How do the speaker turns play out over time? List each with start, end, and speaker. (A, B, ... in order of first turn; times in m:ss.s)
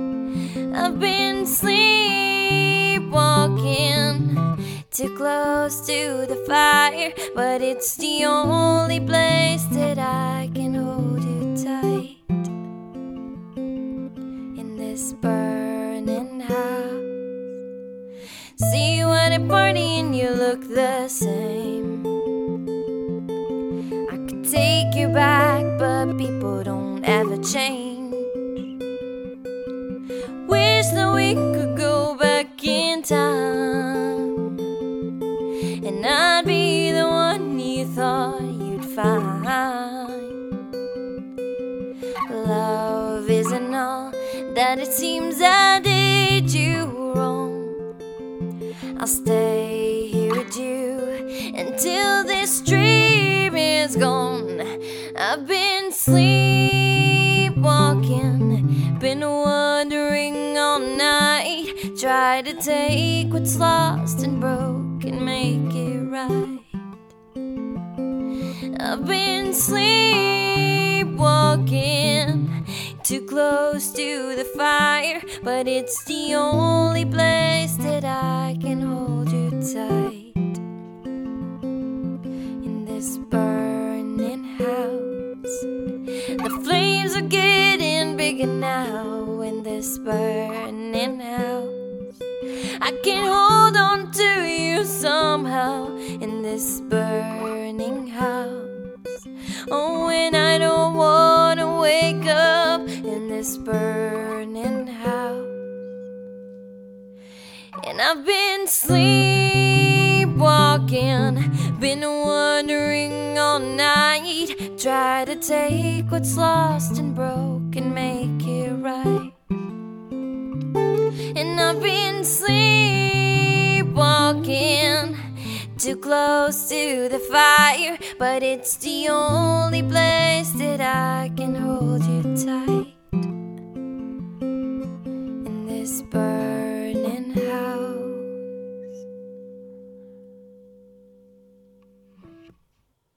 0:00.7-0:12.2 A
0:14.5-0:17.1 A
0:18.6-0:22.1 A
0:24.1-0:28.3 A
0:30.4-0:34.4 A
0:35.8-0:40.3 A
0:42.3-0:47.8 A
0:49.0-1:06.7 A
1:08.7-1:20.6 A
1:22.6-1:25.6 A
1:26.4-1:31.8 A
1:32.8-1:38.7 A
1:39.7-1:45.5 A
1:47.8-1:59.3 A
2:01.3-2:13.0 A
2:15.4-2:18.3 A